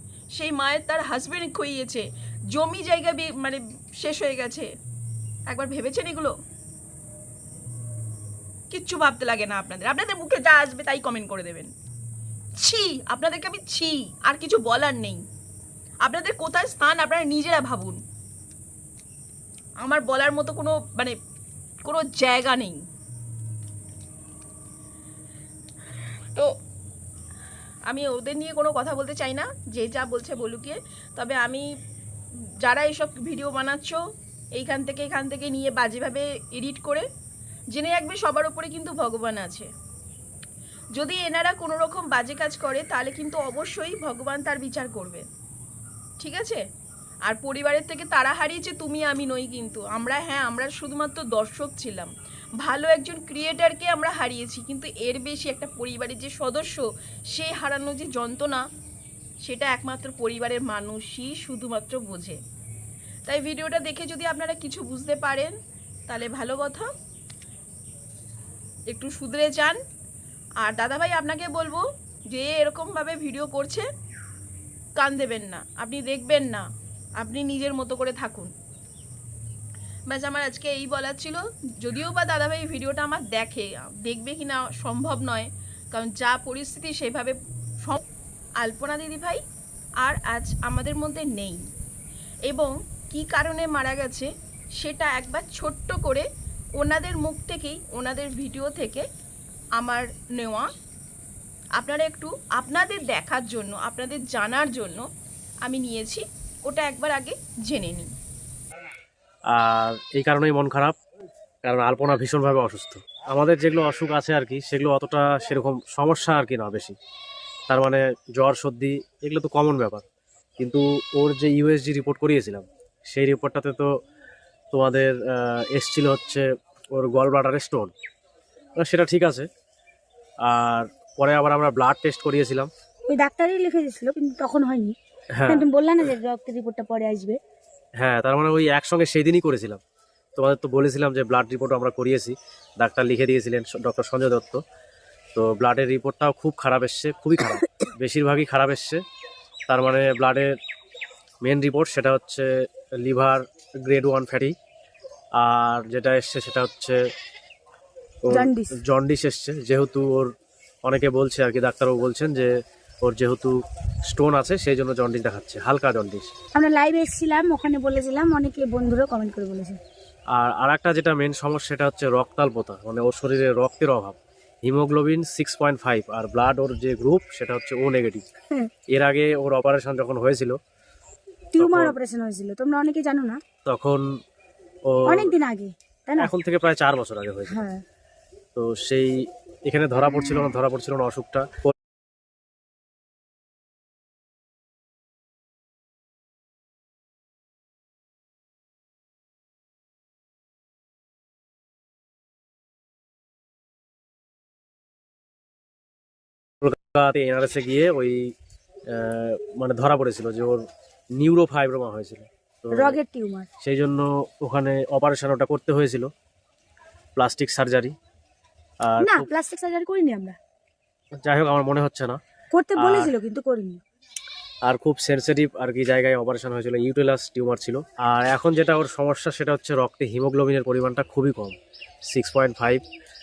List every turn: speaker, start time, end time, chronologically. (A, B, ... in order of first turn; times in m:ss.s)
0:00.4-0:04.7 A
0:05.5-0:06.3 A
0:08.7-0:11.7 A
0:12.6-0:15.2 A
0:16.0-0:18.0 A
0:19.8-0:21.2 A
0:21.8-0:22.8 A
0:27.8-0:31.7 A
0:32.6-0:34.0 A
0:34.6-0:37.1 A
0:37.7-0:39.7 A
0:41.0-0:45.2 A
0:46.2-0:46.6 A
0:47.3-0:52.1 A
0:52.6-0:58.6 A
0:59.4-1:02.4 A
1:03.3-1:05.5 A
1:06.1-1:06.9 A
1:08.9-1:09.8 A
1:10.6-1:13.9 A
1:15.0-1:16.7 A
1:17.2-1:18.5 A
1:20.1-1:28.0 A
1:28.6-1:29.4 A
1:30.0-1:31.6 A
1:32.5-1:36.3 A
1:36.8-1:39.0 A
1:39.8-1:40.7 A
1:41.8-1:45.1 A
1:45.6-1:48.1 A
1:49.5-1:50.9 B
1:51.6-1:57.0 B
1:57.7-2:00.0 B
2:00.6-2:03.9 B
2:04.7-2:07.9 B
2:08.8-2:09.5 B
2:10.4-2:12.7 B
2:13.1-2:14.9 C
2:15.4-2:15.6 B
2:15.4-2:17.4 C
2:18.0-2:19.8 B
2:20.4-2:24.6 B
2:25.3-2:29.0 B
2:29.7-2:30.5 B
2:31.4-2:32.5 B
2:33.0-2:34.5 B
2:35.4-2:37.0 B
2:38.2-2:40.3 B
2:38.3-2:38.7 C
2:40.8-2:42.5 B
2:43.0-2:46.3 B
2:46.6-2:49.8 C
2:50.3-2:58.2 B
2:58.9-3:00.6 B
3:01.5-3:03.4 C
3:01.6-3:01.9 B
3:03.7-3:04.0 B
3:04.9-3:05.3 B
3:05.1-3:06.3 C
3:06.2-3:07.7 B
3:07.5-3:07.8 C
3:08.6-3:11.5 B
3:26.6-3:28.2 B
3:28.9-3:30.6 B
3:31.2-3:33.0 B
3:32.7-3:33.5 C
3:33.6-3:36.1 B
3:37.2-3:37.9 B
3:38.8-3:39.3 B
3:39.0-3:40.4 C
3:41.2-3:42.2 B
3:42.5-3:43.8 C
3:42.8-3:43.1 B
3:44.6-3:51.6 B
3:52.1-3:52.8 B